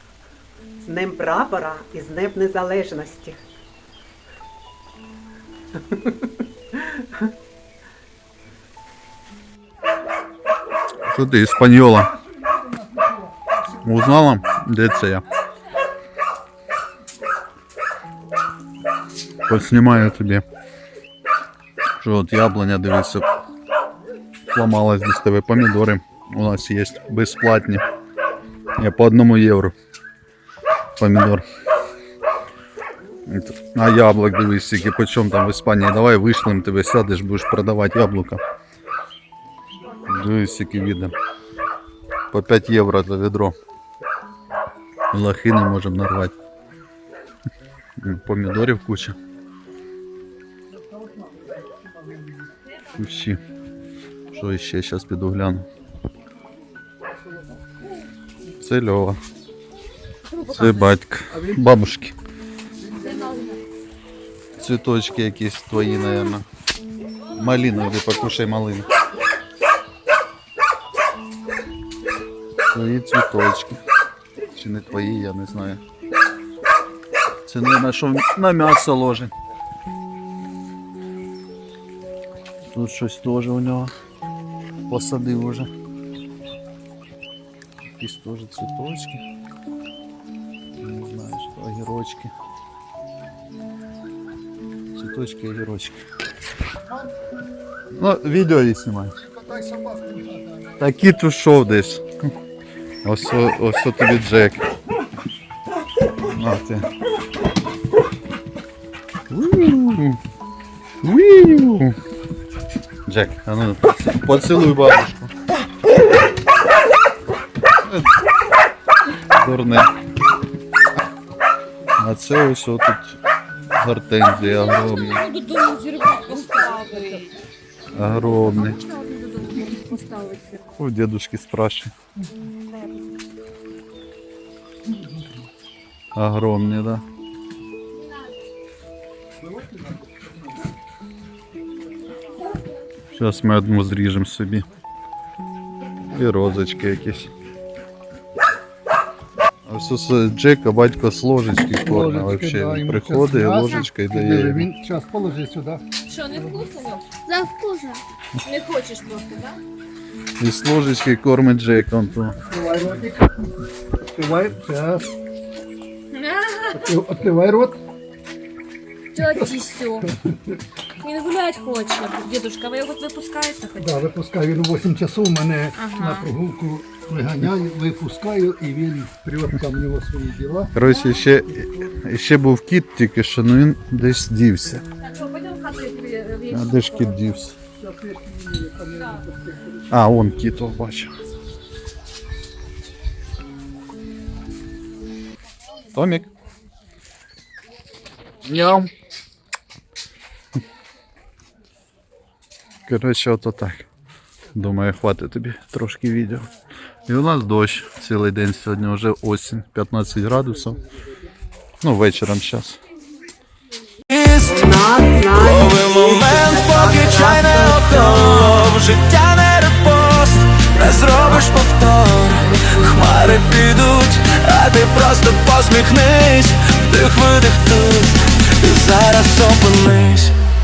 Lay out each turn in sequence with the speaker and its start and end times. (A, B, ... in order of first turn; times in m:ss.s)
0:00.8-0:03.4 A
0:05.8-0:06.2 A
0:06.7-0:07.3 A
0:11.0-0:12.1 B
0:13.8-0:15.2 B
0:19.5-0:20.4 B
0:22.0-0:23.2 B
0:24.5-0:27.8 B
0:28.8-0:29.7 B
0:31.0-0:31.4 B
0:33.3-0:38.4 B
0:40.0-0:41.1 B
0:42.3-0:43.5 B
0:45.1-0:46.3 B
0:48.0-0:49.2 B
0:51.1-0:52.4 C
0:52.9-0:53.4 B
0:54.3-0:55.6 B
0:58.6-0:59.2 B
1:00.3-1:00.9 D
1:00.5-1:02.1 B
1:03.1-1:03.6 D
1:04.6-1:06.4 B
1:07.3-1:08.9 B
1:12.7-1:13.8 B
1:14.6-1:15.8 B
1:17.4-1:19.3 B
1:22.7-1:23.9 B
1:24.9-1:25.7 B
1:28.0-1:29.2 B
1:30.8-1:32.3 B
1:34.9-1:36.0 B
1:37.9-1:39.2 B
1:39.2-1:40.7 C
1:40.8-1:42.0 B
1:43.0-1:44.6 B
1:46.3-1:46.9 B
1:49.3-1:50.2 B
1:51.0-1:52.0 B
1:53.1-1:55.3 B
1:57.8-1:58.1 B
1:59.3-1:59.9 B
2:02.0-2:03.2 B
2:03.8-2:05.2 B
2:04.4-2:07.3 D
2:07.9-2:08.8 B
2:08.4-2:10.7 D
2:10.8-2:11.9 B
2:16.1-2:17.0 B
2:23.1-2:24.6 B
2:26.1-2:27.3 B
2:29.6-2:34.7 B
2:31.8-2:35.8 C
2:36.1-2:39.6 D
2:40.4-2:42.3 B
2:42.5-2:43.4 C
2:44.1-2:45.1 C
2:46.1-2:46.9 D
2:46.7-2:47.8 C
2:49.1-2:50.1 D
2:51.0-2:54.0 D
2:53.8-3:00.8 C
2:55.8-2:56.3 D
3:00.7-3:04.8 B
3:05.0-3:07.2 D
3:06.5-3:07.6 B
3:07.8-3:09.8 C
3:09.9-3:11.1 B
3:15.9-3:16.3 B
3:18.4-3:18.9 B
3:22.9-3:23.8 B
3:24.5-3:26.5 B
3:27.1-3:30.8 B
3:31.8-3:32.8 B
3:34.1-3:34.7 E
3:34.4-3:38.8 A
3:35.2-3:50.4 E
3:40.8-3:41.5 A